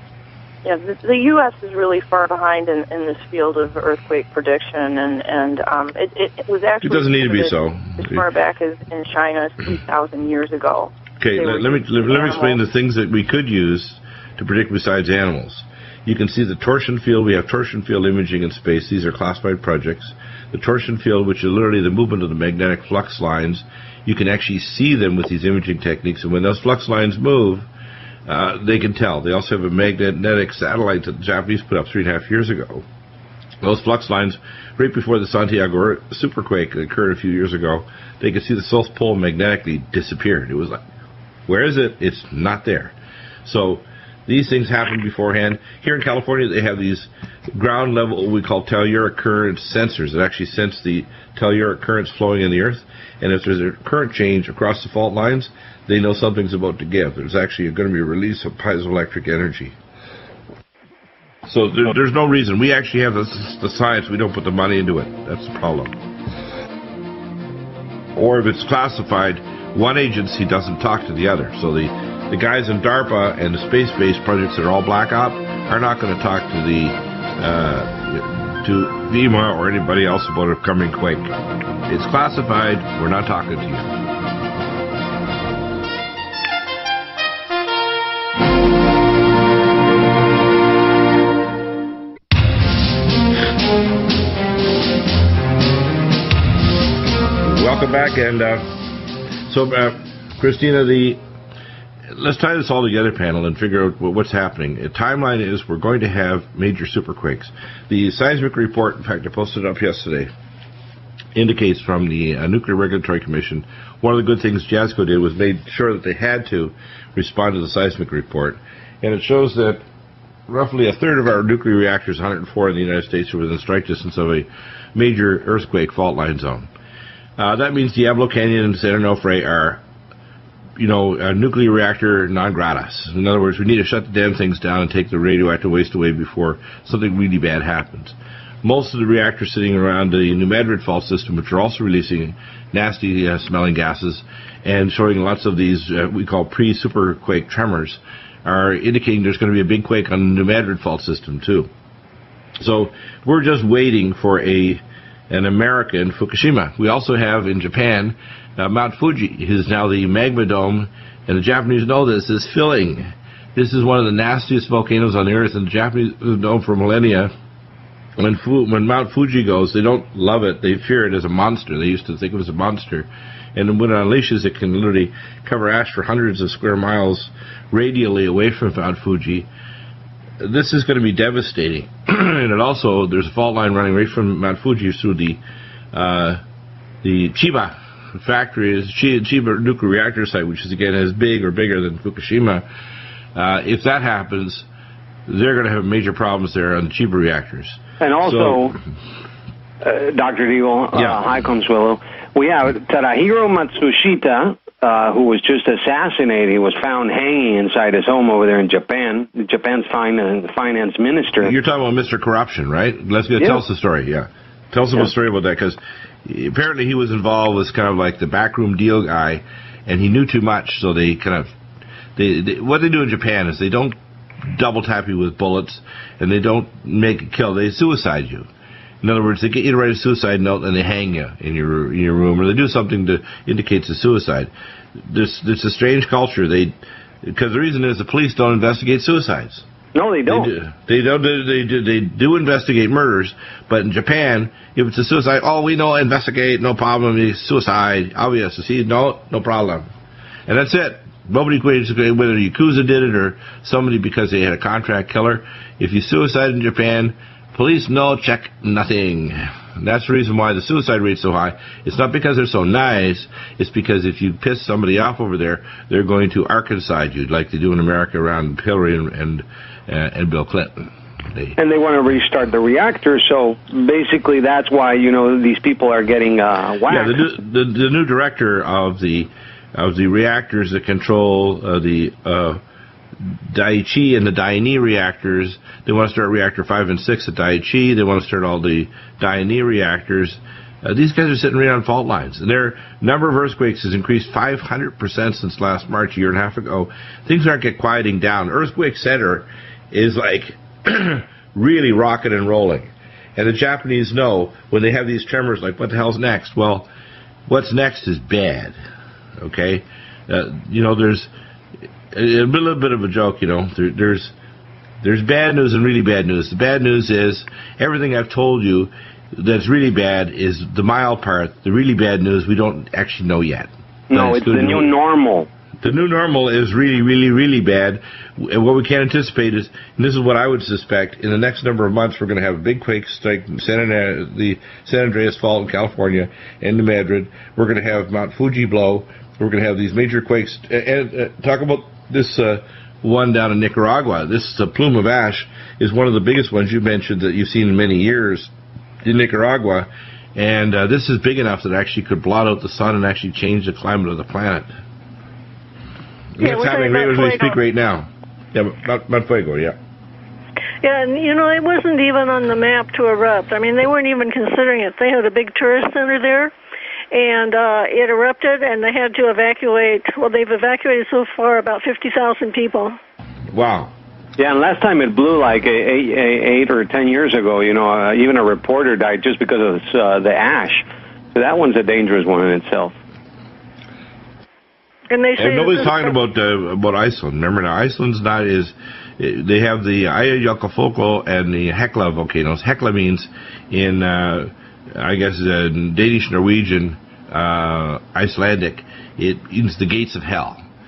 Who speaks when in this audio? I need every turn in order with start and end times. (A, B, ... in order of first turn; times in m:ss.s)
0:00.6-0:12.6 A
0:06.8-0:08.2 B
0:11.2-0:27.7 B
0:28.3-0:32.8 B
0:33.6-0:40.8 B
0:41.5-0:42.9 B
0:43.4-0:59.7 B
1:01.5-1:06.0 B
1:08.2-1:21.3 B
1:21.9-1:23.9 B
1:37.4-1:38.7 B
1:39.5-1:41.2 B
1:42.1-1:50.3 B
1:51.4-1:59.8 B
2:00.5-2:06.7 B
2:07.4-2:09.8 B
2:10.8-2:31.7 B
2:32.6-2:47.3 B
2:48.2-2:59.5 B
3:00.4-3:05.4 B
3:05.9-3:06.4 B
3:07.0-3:12.6 B
3:13.4-3:14.7 B
3:15.3-3:18.8 B
3:18.0-3:18.8 C
3:19.8-3:31.5 C
3:20.9-3:21.2 B
3:31.4-3:41.5 B
3:42.2-3:48.5 B
3:49.0-3:59.6 B
4:00.0-4:00.5 C
4:00.3-4:09.9 B
4:10.5-4:31.6 B
4:31.6-4:37.2 C
4:36.9-4:42.6 B
4:43.2-5:06.9 B
5:07.5-5:08.8 B
5:09.4-5:11.3 B
5:12.1-5:14.3 B
5:15.0-5:24.9 B
5:24.1-5:25.5 C
5:25.8-5:48.5 B
5:49.0-5:54.7 B
5:56.4-5:59.8 B
5:56.4-5:57.6 D
6:00.8-6:06.5 D
6:07.1-6:13.0 D
6:13.5-6:13.9 B
6:14.4-6:23.0 C
6:25.1-6:26.2 D
6:25.4-6:40.6 B